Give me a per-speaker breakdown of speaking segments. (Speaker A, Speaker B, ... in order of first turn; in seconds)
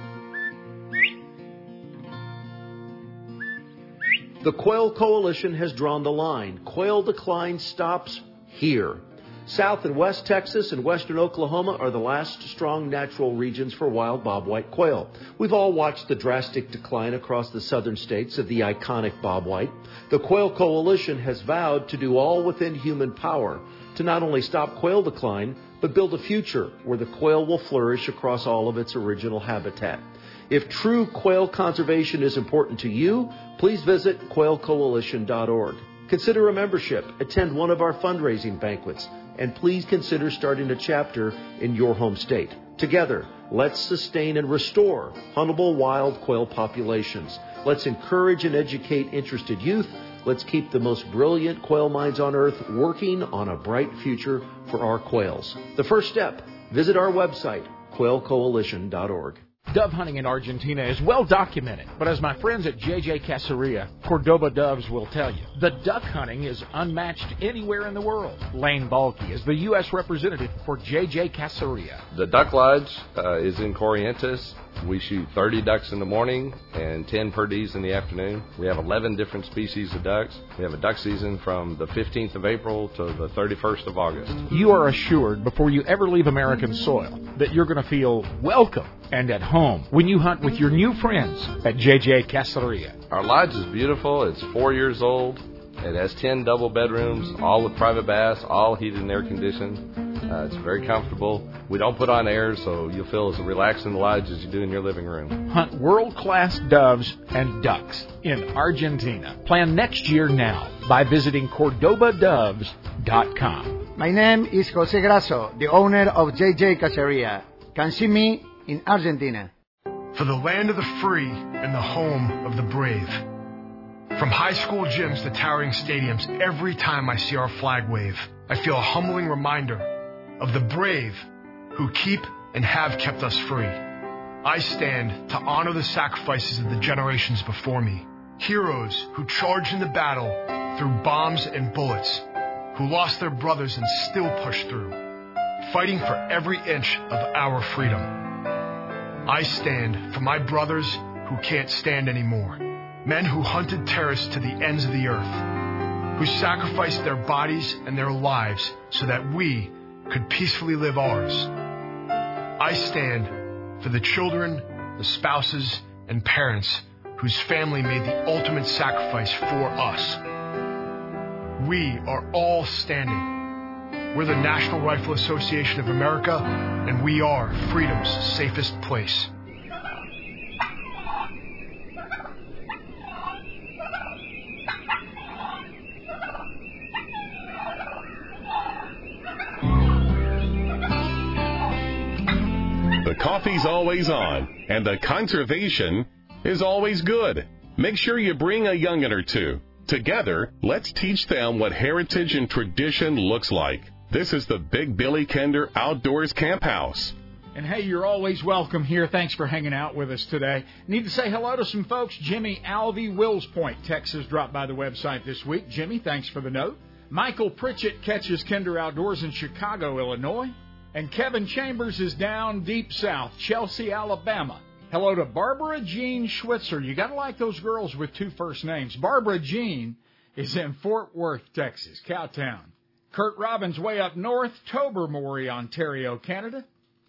Speaker A: 4.4-59.4
Speaker B: 59.7-72.0, 84.5-93.0, 105.5-113.9, 207.6-236.7
Speaker C: 72.1-84.4, 93.1-105.4
Speaker D: 114.0-119.5
Speaker E: 120.1-123.2, 124.1-129.9, 130.4-133.8, 134.4-145.0, 145.6-148.2, 149.2-155.5, 156.2-161.5, 162.6-170.2, 171.6-173.3, 174.1-179.3
Speaker F: 193.0-207.2